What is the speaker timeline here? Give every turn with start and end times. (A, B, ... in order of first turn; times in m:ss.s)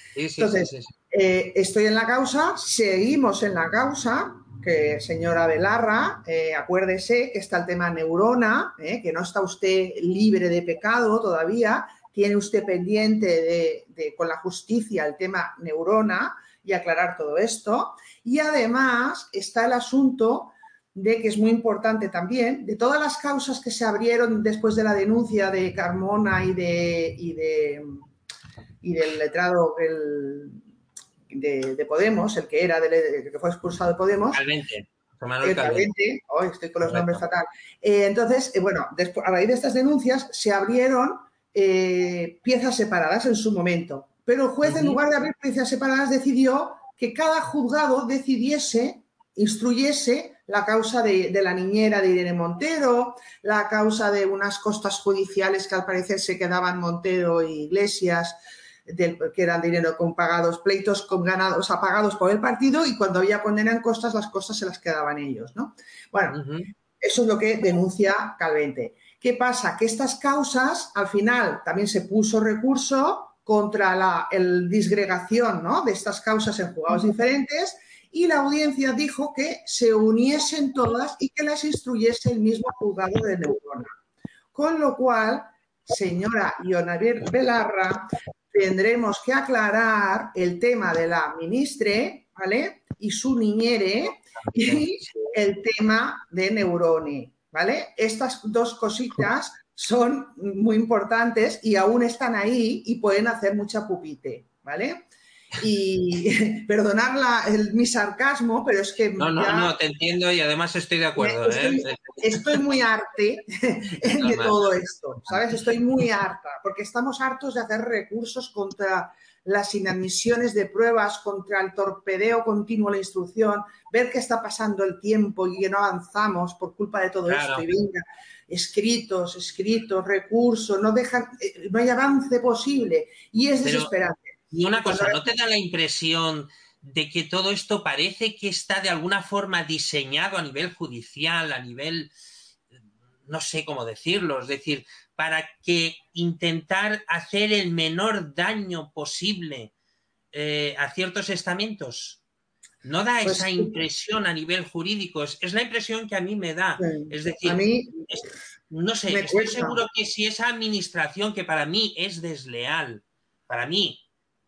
0:00.2-0:00.9 A
0:00.4-0:28.1 B
0:28.8-0:30.6 B
0:31.3-0:34.4 B
0:34.3-0:35.9 A
0:35.4-1:06.4 B
0:36.8-0:37.2 A
0:44.6-0:45.0 A
1:06.3-1:06.7 A
1:07.0-1:23.9 B
1:24.5-1:45.0 B
1:34.6-1:35.3 A
1:45.6-1:49.8 B
1:49.2-1:52.5 A
1:51.2-2:15.3 B
1:54.2-1:54.6 A
2:07.3-2:07.7 A
2:13.6-2:13.9 A
2:14.5-2:22.1 A
2:23.3-2:29.7 A
2:30.3-2:32.2 A
2:32.8-2:44.0 A
2:33.2-2:33.8 B
2:36.8-2:38.1 B
2:39.1-2:39.8 B